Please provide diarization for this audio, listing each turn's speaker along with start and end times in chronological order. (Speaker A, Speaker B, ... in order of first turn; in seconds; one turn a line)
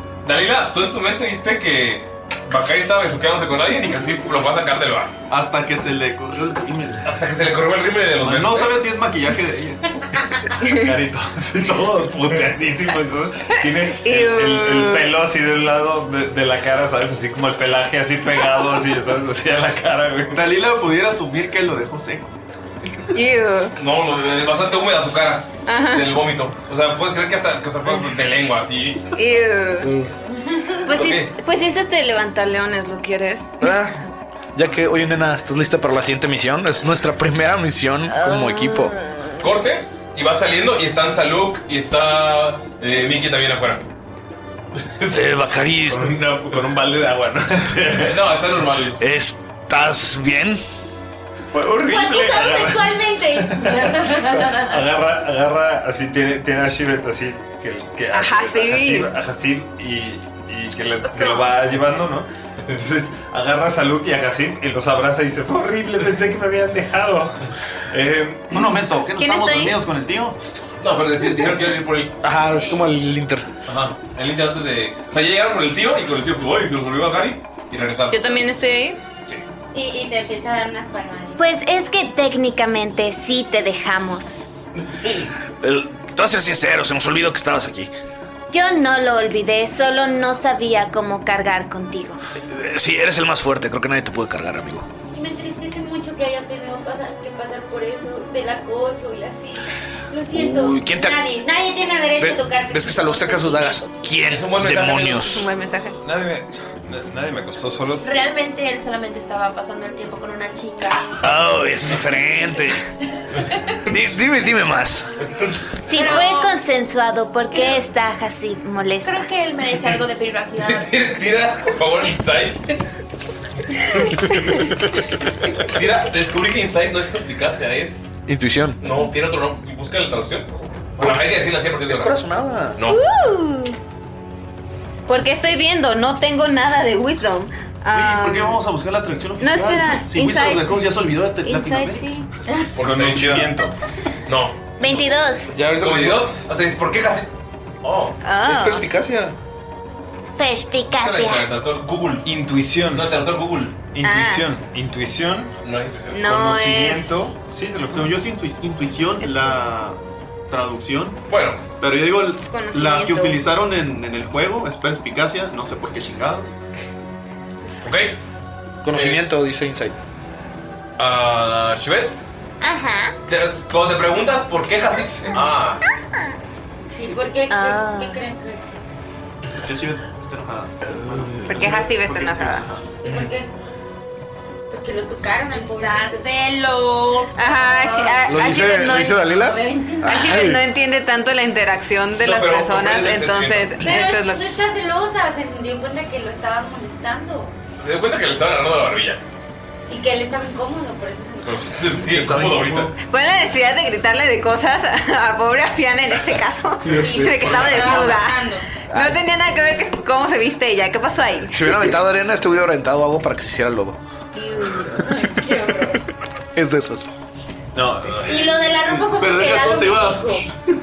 Speaker A: 0.2-5.1
Speaker B: 5.3-7.1
Speaker A: 7.0-8.8
Speaker B: 8.2-9.9
Speaker C: 10.7-20.4
Speaker D: 13.8-15.1
Speaker B: 20.3-22.3
Speaker D: 23.1-23.7
Speaker A: 23.8-29.1
Speaker D: 25.7-26.1
Speaker D: 29.2-29.9
Speaker A: 30.9-31.3
Speaker E: 30.9-31.2
Speaker D: 30.9-33.5
Speaker F: 33.6-34.0
Speaker F: 34.5-39.0
Speaker E: 38.2-38.9
Speaker A: 39.4-43.9
Speaker A: 45.0-45.3
Speaker F: 45.1-46.1
Speaker C: 45.9-48.2
Speaker A: 47.9-49.0
Speaker F: 49.0-50.6
Speaker C: 51.5-68.7
Speaker G: 51.8-54.4
Speaker H: 54.1-54.6
Speaker D: 58.1-59.1
Speaker D: 61.1-61.4
Speaker B: 68.5-70.4
Speaker D: 69.2-69.8
Speaker A: 70.8-72.1
Speaker F: 72.2-73.5
Speaker A: 73.7-78.5
Speaker D: 78.1-79.0
Speaker G: 79.7-81.4
Speaker E: 81.4-84.5
Speaker A: 85.0-85.3
Speaker F: 85.6-87.9
Speaker E: 88.5-92.2
Speaker F: 92.5-94.9
Speaker G: 95.1-103.9
Speaker F: 100.3-101.2
Speaker F: 102.2-105.5
Speaker A: 104.3-105.4
Speaker D: 105.2-106.0
Speaker C: 106.0-108.1
Speaker H: 108.0-111.2
Speaker F: 111.2-112.8
Speaker F: 113.8-115.1
Speaker E: 115.8-119.3
Speaker H: 115.9-116.5
Speaker H: 117.5-117.8
Speaker H: 119.0-121.2
Speaker A: 120.6-122.7
Speaker A: 124.0-124.7
Speaker A: 125.6-128.2
Speaker F: 128.3-128.8
Speaker A: 128.8-132.2
Speaker F: 131.9-132.8
Speaker A: 132.8-133.0
Speaker D: 132.9-133.8
Speaker D: 135.1-138.6
Speaker B: 137.9-142.2
Speaker D: 139.4-140.8
Speaker D: 141.4-142.2
Speaker A: 142.8-143.5
Speaker C: 142.8-143.8
Speaker A: 144.3-145.0
Speaker E: 144.8-145.6
Speaker F: 145.5-146.3
Speaker A: 145.8-147.3
Speaker A: 147.8-148.2
Speaker D: 148.2-148.8
Speaker F: 148.4-149.4
Speaker E: 150.4-151.5
Speaker A: 151.0-152.2
Speaker C: 152.2-153.1
Speaker A: 152.9-153.8
Speaker C: 153.9-155.5
Speaker D: 154.0-154.5
Speaker A: 155.6-156.2
Speaker D: 156.1-157.2
Speaker C: 156.2-158.2
Speaker B: 157.9-160.0
Speaker D: 159.2-159.6
Speaker B: 160.5-161.2
Speaker A: 161.3-161.6
Speaker B: 161.8-166.5
Speaker D: 162.5-163.4
Speaker A: 167.8-168.2
Speaker F: 168.8-169.9
Speaker A: 168.9-169.2
Speaker A: 171.0-172.2
Speaker E: 172.6-173.1
Speaker A: 173.3-175.8
Speaker G: 176.9-178.8
Speaker E: 177.5-178.2
Speaker B: 179.6-182.9
Speaker D: 181.4-182.7
Speaker G: 183.0-183.5
Speaker A: 183.1-183.3
Speaker G: 184.7-186.3
Speaker H: 185.5-190.5
Speaker D: 187.4-189.3
Speaker F: 188.2-190.6
Speaker D: 190.1-194.4
Speaker A: 192.2-193.8
Speaker G: 193.8-197.6
Speaker A: 197.8-199.2
Speaker G: 199.9-202.0
Speaker A: 201.4-202.9
Speaker F: 202.1-202.9
Speaker D: 203.1-211.9
Speaker G: 206.9-208.7
Speaker F: 206.9-207.4
Speaker F: 208.9-209.2
Speaker F: 211.5-214.0
Speaker G: 214.3-216.0
Speaker F: 216.6-217.1
Speaker C: 217.8-218.5
Speaker G: 218.2-220.5
Speaker B: 219.1-220.4